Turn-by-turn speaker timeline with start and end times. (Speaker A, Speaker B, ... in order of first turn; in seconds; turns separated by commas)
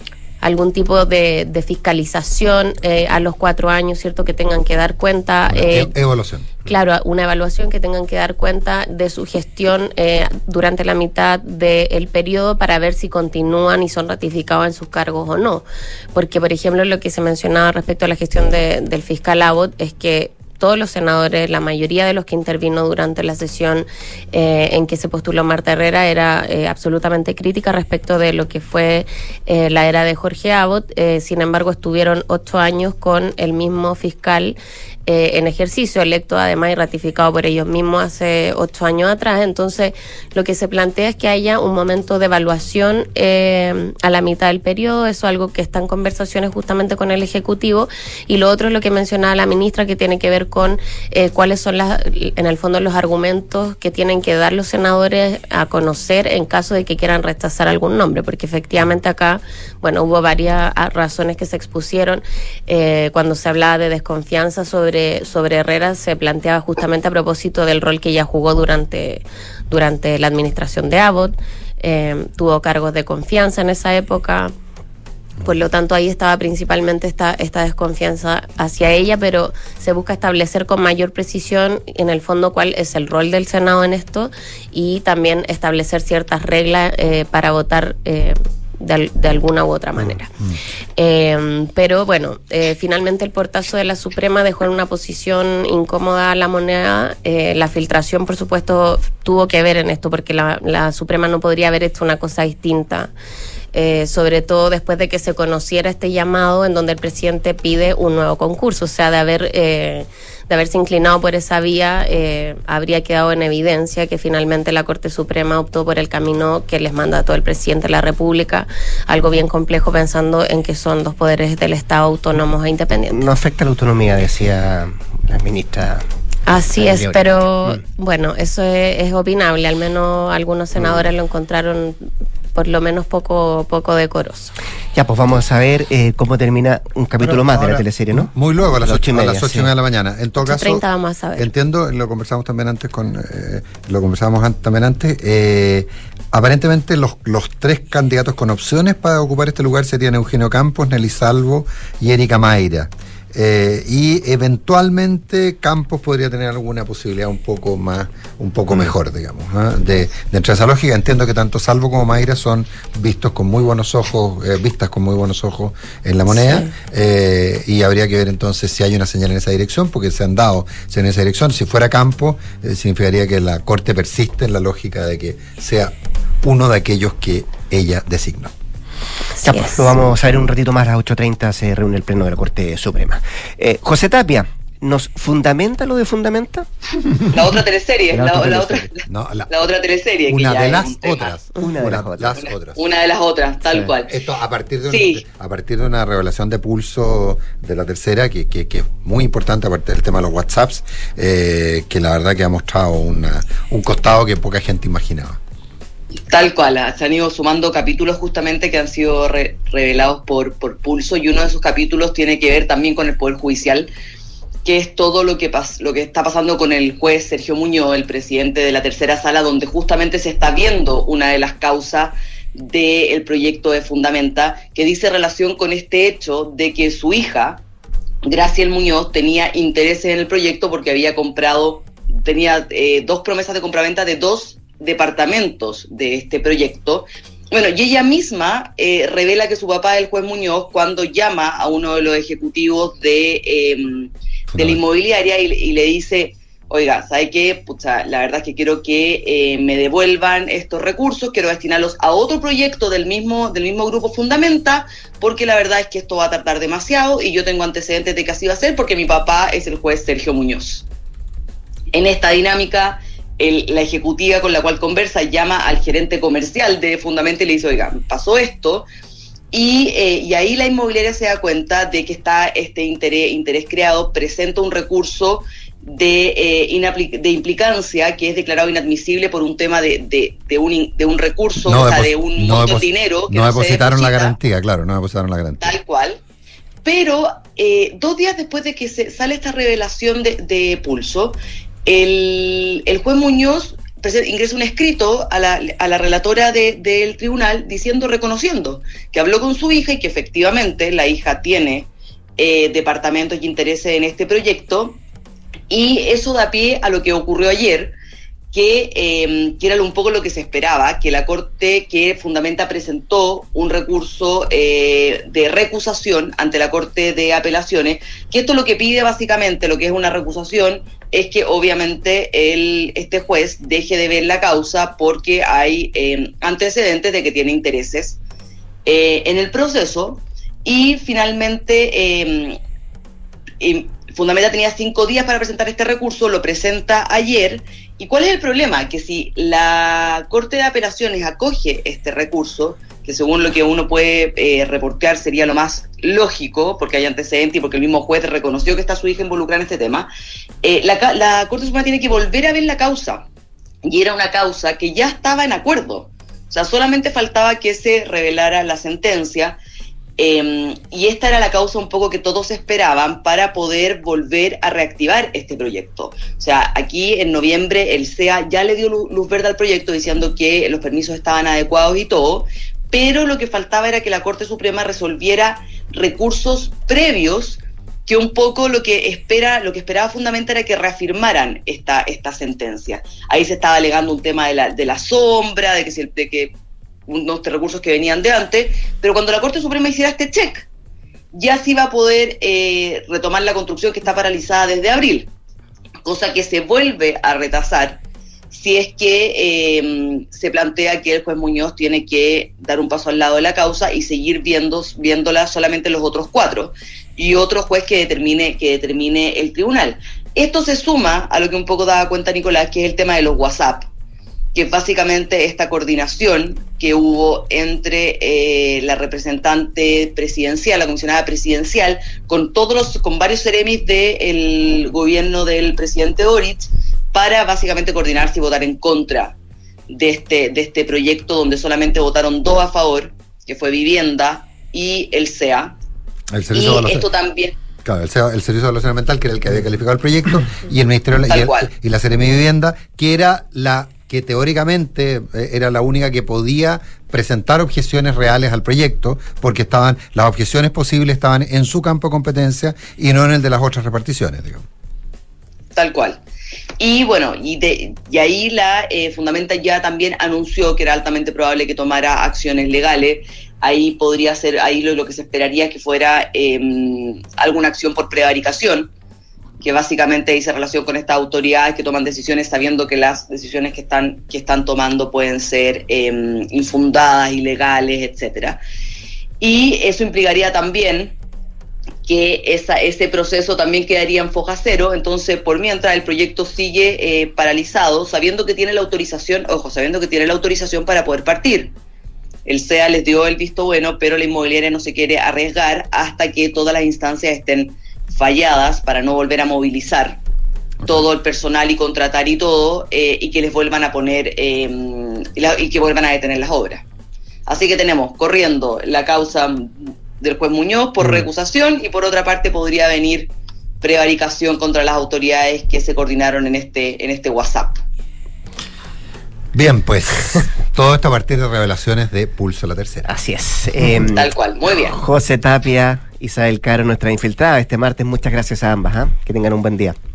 Speaker A: 0.4-6.0, Speaker B: 5.5-6.6, Speaker A: 6.6-74.5, Speaker A: 75.4-90.3, Speaker A: 91.0-103.1, Speaker A: 103.7-123.2, Speaker C: 123.1-126.0, Speaker A: 126.5-134.5, Speaker C: 126.8-127.8, Speaker C: 134.9-139.7, Speaker B: 137.2-140.8, Speaker A: 140.4-141.5, Speaker B: 141.4-178.5, Speaker C: 158.7-158.9, Speaker A: 166.3-166.7, Speaker A: 179.3-180.0, Speaker C: 179.4-186.7, Speaker D: 187.3-191.4, Speaker B: 188.1-189.5, Speaker B: 190.2-192.8, Speaker C: 191.6-192.4, Speaker D: 192.4-194.1, Speaker B: 193.6-205.4, Speaker D: 194.9-195.2, Speaker D: 206.3-213.9, Speaker D: 214.6-227.6, Speaker D: 228.2-260.8, Speaker B: 244.5-244.8, Speaker D: 261.9-268.9, Speaker D: 269.5-284.4, Speaker B: 281.6-285.8, Speaker D: 285.6-286.2, Speaker D: 286.8-305.0, Speaker D: 305.7-307.9, Speaker D: 308.5-328.2, Speaker D: 328.9-332.6, Speaker D: 333.6-350.1, Speaker D: 350.6-353.2, Speaker D: 353.8-359.6, Speaker D: 360.2-386.5, Speaker D: 387.1-390.7, Speaker D: 391.3-395.3, Speaker D: 396.0-413.9, Speaker D: 414.5-429.3, Speaker D: 429.9-435.7, Speaker B: 436.3-437.1, Speaker D: 436.5-437.5, Speaker B: 437.8-454.6, Speaker D: 441.3-441.7, Speaker D: 455.8-456.2, Speaker D: 456.8-468.9, Speaker D: 469.6-478.6, Speaker D: 479.4-481.1, Speaker D: 482.0-491.7, Speaker D: 492.4-500.2, Speaker D: 500.9-506.8, Speaker D: 507.5-517.8, Speaker B: 519.5-523.1, Speaker C: 523.1-530.0, Speaker D: 524.1-525.0